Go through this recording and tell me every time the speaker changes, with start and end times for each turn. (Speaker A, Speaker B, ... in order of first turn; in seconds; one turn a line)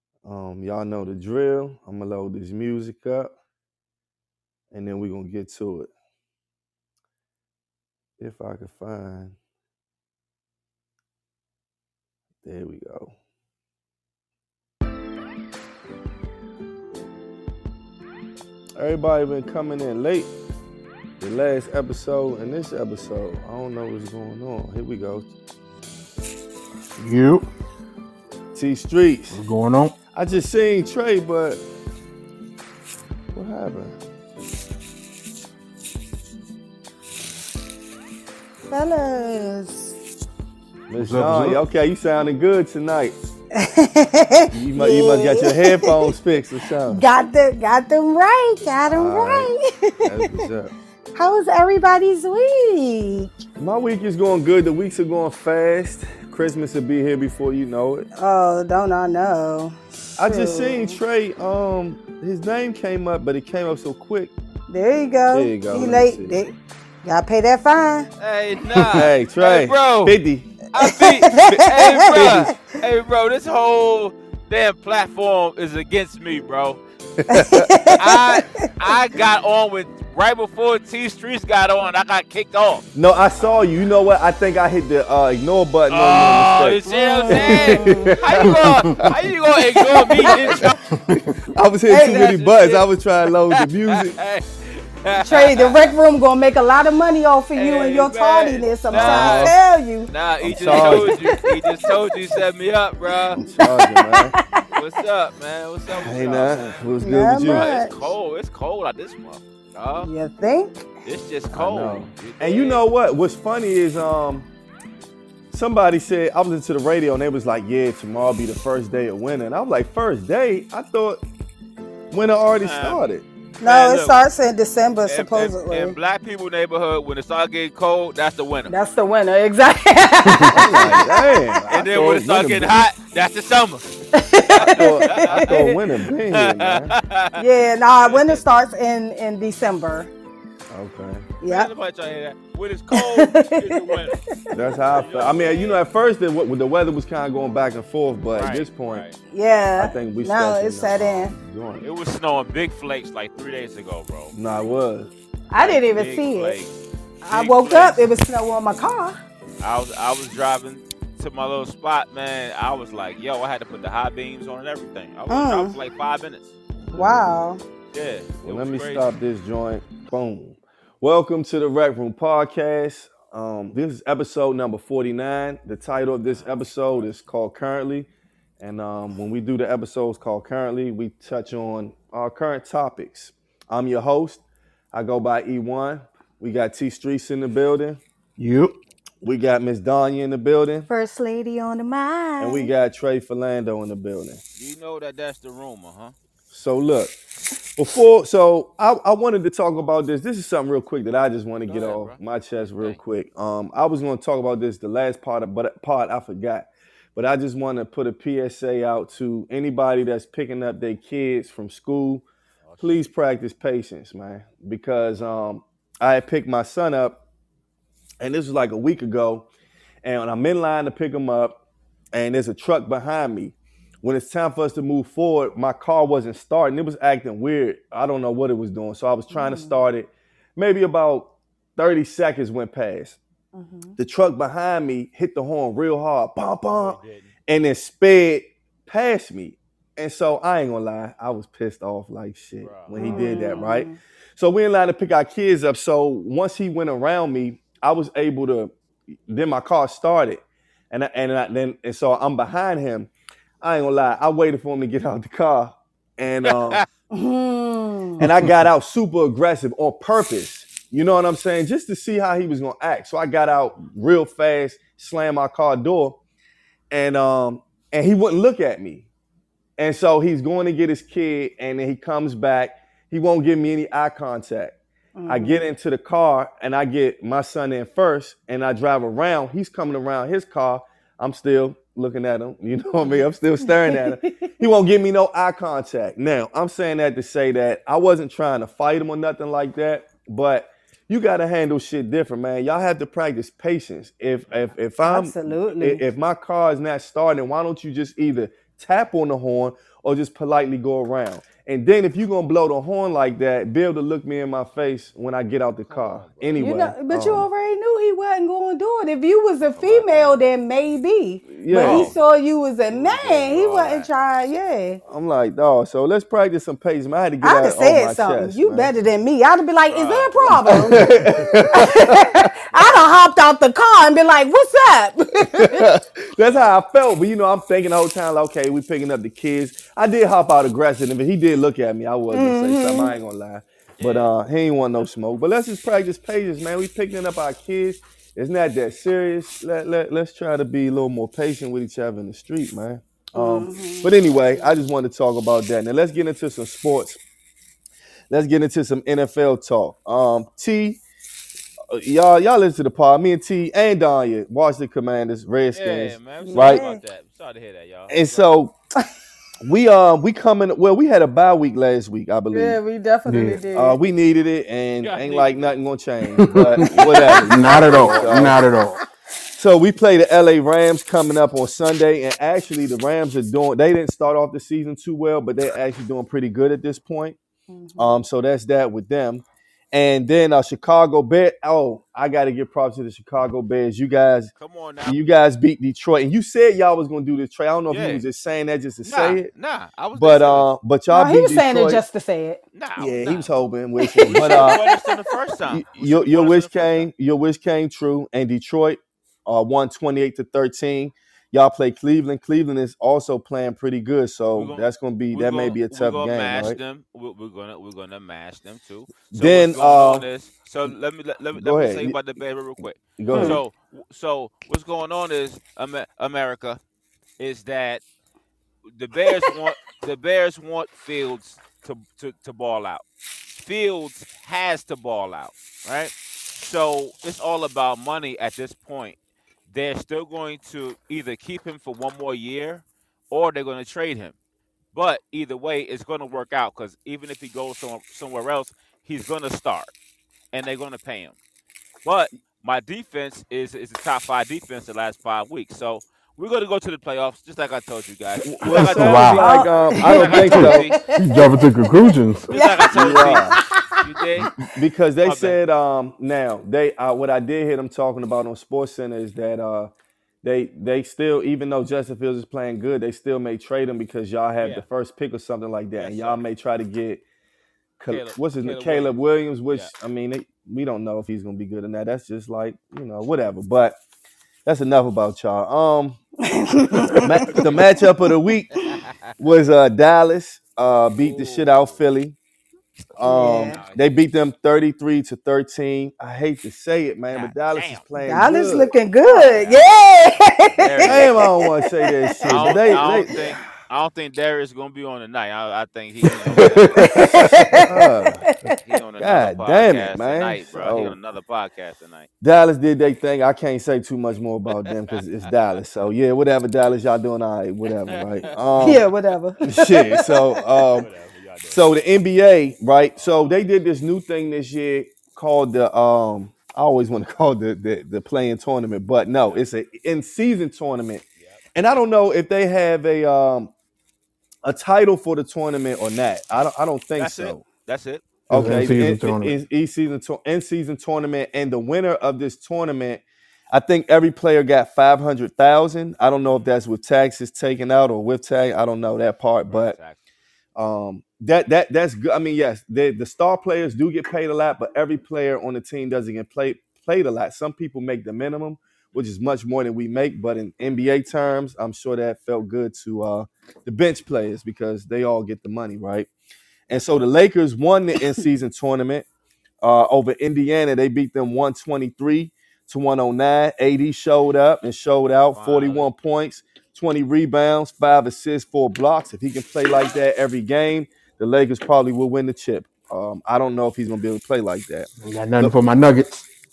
Speaker A: 0.2-3.3
Speaker A: 4.7-5.9
Speaker A: 8.2-9.3
Speaker A: 12.4-13.1
Speaker A: 18.8-20.3
Speaker A: 21.2-25.3
Speaker B: 27.0-27.5
Speaker A: 28.5-29.4
Speaker B: 29.3-29.9
Speaker A: 30.1-31.6
Speaker A: 33.3-34.0
Speaker C: 38.7-39.9
Speaker A: 40.9-43.2
Speaker B: 41.0-41.6
Speaker C: 43.6-46.1
Speaker A: 44.5-47.0
Speaker C: 46.9-50.3
Speaker A: 48.9-49.5
Speaker A: 50.0-50.7
Speaker C: 51.1-53.3
Speaker A: 53.6-58.1
Speaker C: 58.1-61.0
Speaker A: 60.2-64.3
Speaker C: 64.7-68.1
Speaker A: 65.3-66.4
Speaker D: 68.2-70.2
Speaker A: 68.9-70.5
Speaker D: 70.7-76.8
Speaker C: 70.8-72.5
Speaker A: 72.1-72.5
Speaker A: 77.2-77.7
Speaker C: 77.3-78.7
Speaker D: 77.9-82.8
Speaker A: 82.9-89.0
Speaker D: 85.9-90.8
Speaker C: 86.9-88.2
Speaker B: 88.4-89.0
Speaker C: 89.6-90.6
Speaker B: 90.9-91.5
Speaker A: 91.5-94.2
Speaker C: 91.9-92.3
Speaker D: 91.9-92.9
Speaker D: 93.5-96.0
Speaker C: 95.2-100.1
Speaker D: 97.5-103.4
Speaker A: 98.9-99.5
Speaker A: 100.4-101.2
Speaker C: 100.7-102.3
Speaker C: 103.4-104.7
Speaker A: 103.4-104.3
Speaker D: 104.7-110.1
Speaker A: 106.0-107.7
Speaker C: 107.0-108.1
Speaker C: 110.0-110.9
Speaker D: 111.0-112.8
Speaker A: 111.5-114.5
Speaker A: 115.5-121.2
Speaker A: 122.1-123.2
Speaker D: 122.6-123.0
Speaker C: 123.6-126.0
Speaker D: 123.6-124.2
Speaker D: 125.0-128.7
Speaker C: 128.7-131.5
Speaker B: 130.2-130.6
Speaker A: 130.5-132.7
Speaker D: 131.7-133.9
Speaker C: 134.1-135.7
Speaker D: 134.5-135.8
Speaker A: 134.7-136.9
Speaker D: 136.3-138.5
Speaker C: 137.3-140.1
Speaker A: 140.7-141.3
Speaker C: 141.4-141.7
Speaker D: 141.4-145.8
Speaker C: 142.9-144.6
Speaker A: 144.5-149.0
Speaker D: 148.3-149.2
Speaker C: 149.3-151.3
Speaker A: 149.8-151.8
Speaker D: 151.8-154.3
Speaker A: 154.3-155.1
Speaker C: 155.5-156.6
Speaker D: 155.6-156.7
Speaker C: 157.2-159.2
Speaker D: 157.3-158.1
Speaker D: 159.6-166.5
Speaker C: 165.3-165.8
Speaker A: 166.9-167.3
Speaker C: 166.9-167.6
Speaker D: 167.9-169.1
Speaker A: 168.4-178.1
Speaker D: 176.2-177.2
Speaker A: 178.6-188.0
Speaker B: 188.4-188.8
Speaker A: 189.2-190.9
Speaker C: 190.9-192.7
Speaker A: 192.4-194.4
Speaker D: 194.5-196.1
Speaker A: 196.5-197.2
Speaker A: 197.8-212.2
Speaker D: 201.7-202.2
Speaker D: 212.6-213.1
Speaker A: 212.8-217.2
Speaker A: 218.2-219.5
Speaker A: 220.0-221.6
Speaker A: 222.1-233.2
Speaker C: 229.3-229.8
Speaker C: 233.5-234.0
Speaker A: 234.0-248.7
Speaker D: 236.7-237.3
Speaker D: 242.6-243.6
Speaker C: 242.9-244.0
Speaker A: 249.3-253.1
Speaker A: 253.6-256.8
Speaker D: 256.4-256.8
Speaker C: 257.1-258.2
Speaker A: 258.2-266.2
Speaker B: 258.2-258.6
Speaker A: 266.9-269.1
Speaker A: 269.8-274.8
Speaker C: 275.1-275.6
Speaker A: 275.3-307.5
Speaker D: 294.5-294.7
Speaker C: 295.0-296.1
Speaker D: 305.7-306.7
Speaker C: 306.6-315.0
Speaker D: 309.6-310.5
Speaker A: 311.5-312.1
Speaker D: 311.8-312.4
Speaker D: 312.9-314.1
Speaker A: 315.1-318.9
Speaker C: 317.4-325.9
Speaker D: 319.9-320.7
Speaker A: 320.7-322.2
Speaker B: 320.7-321.5
Speaker D: 322.7-323.1
Speaker A: 325.5-347.2
Speaker D: 326.4-326.7
Speaker C: 332.3-333.1
Speaker D: 334.0-334.3
Speaker C: 343.3-344.8
Speaker A: 348.3-351.0
Speaker A: 351.9-356.8
Speaker D: 355.7-358.5
Speaker C: 356.4-357.0
Speaker A: 358.1-358.7
Speaker A: 359.6-362.8
Speaker C: 362.5-364.0
Speaker B: 363.2-363.6
Speaker A: 363.7-368.6
Speaker D: 365.0-365.8
Speaker B: 366.4-366.9
Speaker C: 367.0-368.6
Speaker B: 367.4-369.0
Speaker A: 369.6-377.4
Speaker C: 377.7-378.2
Speaker A: 378.0-384.5
Speaker D: 384.6-385.2
Speaker A: 385.0-389.5
Speaker D: 387.9-388.2
Speaker D: 389.0-390.7
Speaker A: 390.1-392.0
Speaker C: 391.1-392.6
Speaker D: 392.7-393.5
Speaker A: 393.0-394.8
Speaker C: 394.0-395.1
Speaker D: 394.3-397.1
Speaker A: 395.7-406.8
Speaker D: 404.5-416.8
Speaker A: 409.3-410.2
Speaker A: 411.6-412.2
Speaker A: 413.2-413.6
Speaker C: 413.3-413.6
Speaker D: 417.4-418.0
Speaker D: 418.9-429.2
Speaker D: 429.7-434.4
Speaker D: 434.9-439.9
Speaker D: 440.5-441.4
Speaker D: 442.0-451.0
Speaker A: 448.4-450.9
Speaker B: 448.6-449.4
Speaker C: 449.4-454.5
Speaker B: 450.5-452.5
Speaker D: 452.4-454.5
Speaker A: 452.9-453.6
Speaker A: 454.6-459.9
Speaker D: 455.2-455.6
Speaker A: 460.4-467.2
Speaker D: 466.0-466.4
Speaker A: 468.0-474.0
Speaker D: 468.1-469.1
Speaker A: 474.6-476.2
Speaker C: 476.4-477.7
Speaker A: 477.1-478.7
Speaker D: 478.9-479.3
Speaker A: 479.4-482.4
Speaker D: 481.2-482.0
Speaker A: 483.1-488.9
Speaker C: 483.2-483.8
Speaker D: 483.3-484.1
Speaker D: 487.3-488.0
Speaker C: 488.2-493.1
Speaker D: 489.2-491.5
Speaker A: 491.0-493.4
Speaker D: 492.4-497.8
Speaker B: 496.5-497.8
Speaker C: 497.1-497.8
Speaker A: 497.7-498.4
Speaker C: 498.4-498.7
Speaker D: 498.6-502.3
Speaker A: 499.2-501.2
Speaker A: 502.4-509.0
Speaker D: 504.7-506.1
Speaker D: 508.1-509.1
Speaker C: 508.8-510.5
Speaker A: 509.6-511.1
Speaker D: 511.0-511.8
Speaker A: 511.7-521.2
Speaker D: 513.1-513.5
Speaker A: 521.7-523.7
Speaker A: 524.6-527.6
Speaker D: 527.2-528.3
Speaker A: 528.5-540.0
Speaker B: 528.5-529.5
Speaker D: 539.6-540.2
Speaker A: 540.8-556.3
Speaker A: 556.9-559.3
Speaker D: 556.9-557.3
Speaker A: 559.8-575.8
Speaker D: 565.5-566.1
Speaker B: 575.2-576.5